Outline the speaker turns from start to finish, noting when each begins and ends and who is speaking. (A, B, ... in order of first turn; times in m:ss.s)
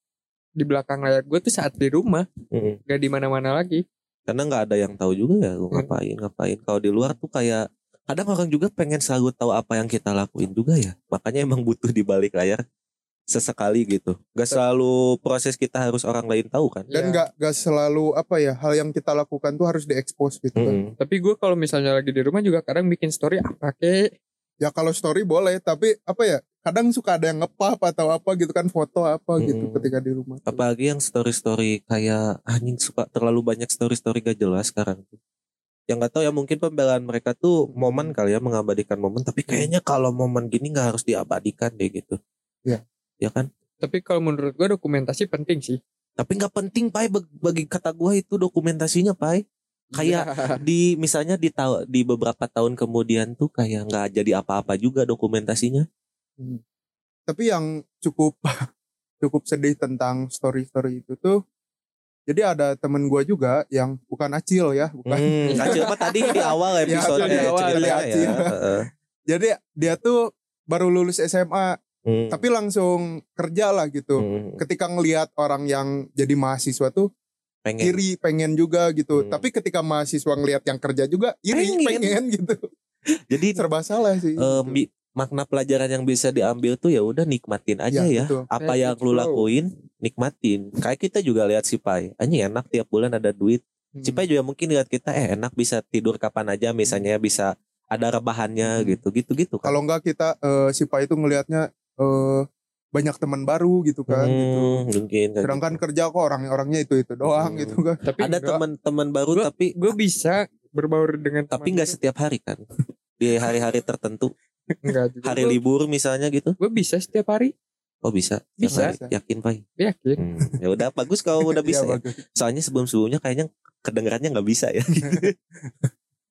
0:00.6-0:02.3 A
0:02.5-0:02.8 B
0:02.9-0:03.8 A
0:04.3-0:12.6 B
0:13.3-0:16.9 B
0:16.9-0:17.3 A
0:16.9-0:20.8 C
0:20.6-0:20.9 B
0:21.0-0:24.1 A
0:24.6-0:30.6 C
0:29.4-0:29.9 B
0:30.5-0:35.2 B
0:35.9-0:42.2 B
0:37.8-0:38.1 C
0:43.2-0:43.5 B
0:43.8-0:45.8 A
0:46.2-0:49.4 B
0:50.0-0:55.9 B
0:50.0-0:50.6 A
0:57.3-0:58.6 C
0:59.2-1:01.4 C
1:02.3-1:05.9 C
1:05.1-1:08.8 B
1:05.5-1:08.4 A
1:06.8-1:08.6 C
1:09.3-1:11.8 C
1:12.1-1:12.4 B
1:12.3-1:17.1 C
1:14.2-1:14.6 B
1:17.6-1:18.0 B
1:17.8-1:22.6 C
1:19.2-1:19.4 B
1:21.5-1:22.2 B
1:23.3-1:23.6 B
1:23.6-1:24.8 C
1:24.4-1:39.7 B
1:27.9-1:28.5 C
1:28.6-1:29.5 A
1:34.0-1:34.3 C
1:38.6-1:39.0 C
1:39.6-1:44.8 C
1:44.1-1:45.8 B
1:45.4-1:48.0 C
1:47.3-1:49.8 B
1:48.0-1:48.6 A
1:49.3-1:52.0 A
1:51.5-1:52.6 B
1:53.2-1:54.3 B
1:54.8-1:55.6 A
1:55.2-1:56.5 B
1:56.6-1:57.5 A
1:58.0-1:59.6 B
1:58.6-1:59.0 A
1:58.7-1:59.1 C
1:59.8-2:00.2 A
2:00.2-2:05.3 B
2:01.5-2:02.2 C